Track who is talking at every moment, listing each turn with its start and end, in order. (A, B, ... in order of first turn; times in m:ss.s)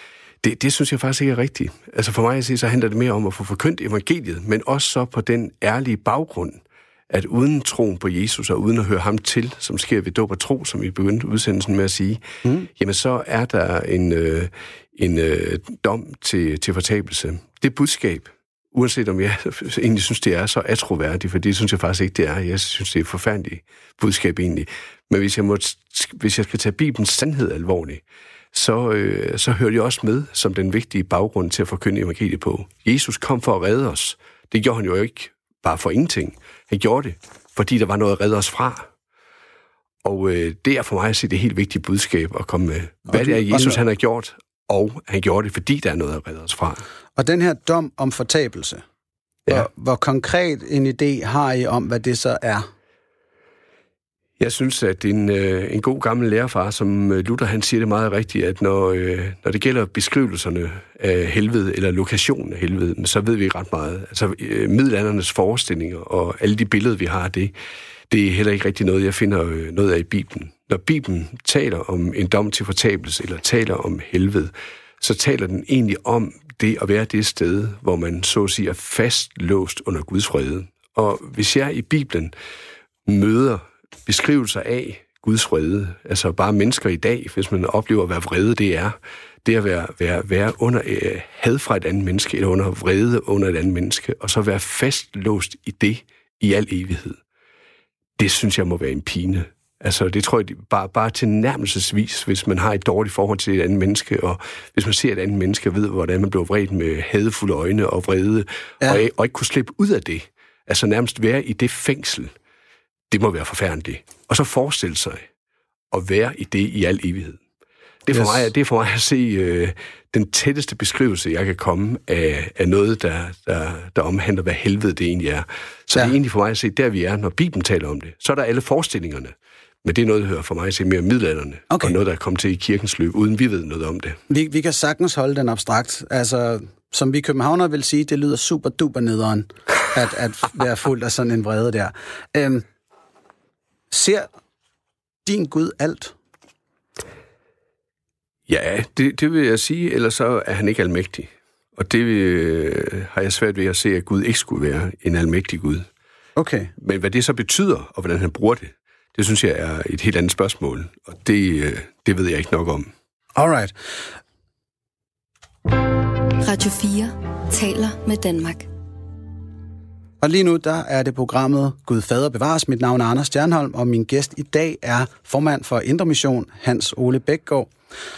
0:00.4-0:38.9 A
0:40.0-0:46.8 A
0:43.1-0:43.8 B
0:47.2-0:48.8 B
0:49.5-0:52.7 B
0:54.4-1:07.5 A
1:08.1-1:22.3 A
1:23.1-1:37.2 A
1:38.2-1:52.3 A
1:53.1-1:55.3 A
1:55.9-1:57.4 A
1:58.1-2:14.2 A
1:58.1-1:58.4 B
2:11.7-2:12.0 B
2:14.3-2:22.6 B
2:23.9-2:24.3 B
2:25.2-2:26.2 B
2:28.5-2:35.9 A
2:36.4-2:36.7 B
2:36.8-2:42.9 A
2:43.4-2:43.7 B
2:45.7-2:48.7 C
2:50.2-2:57.7 B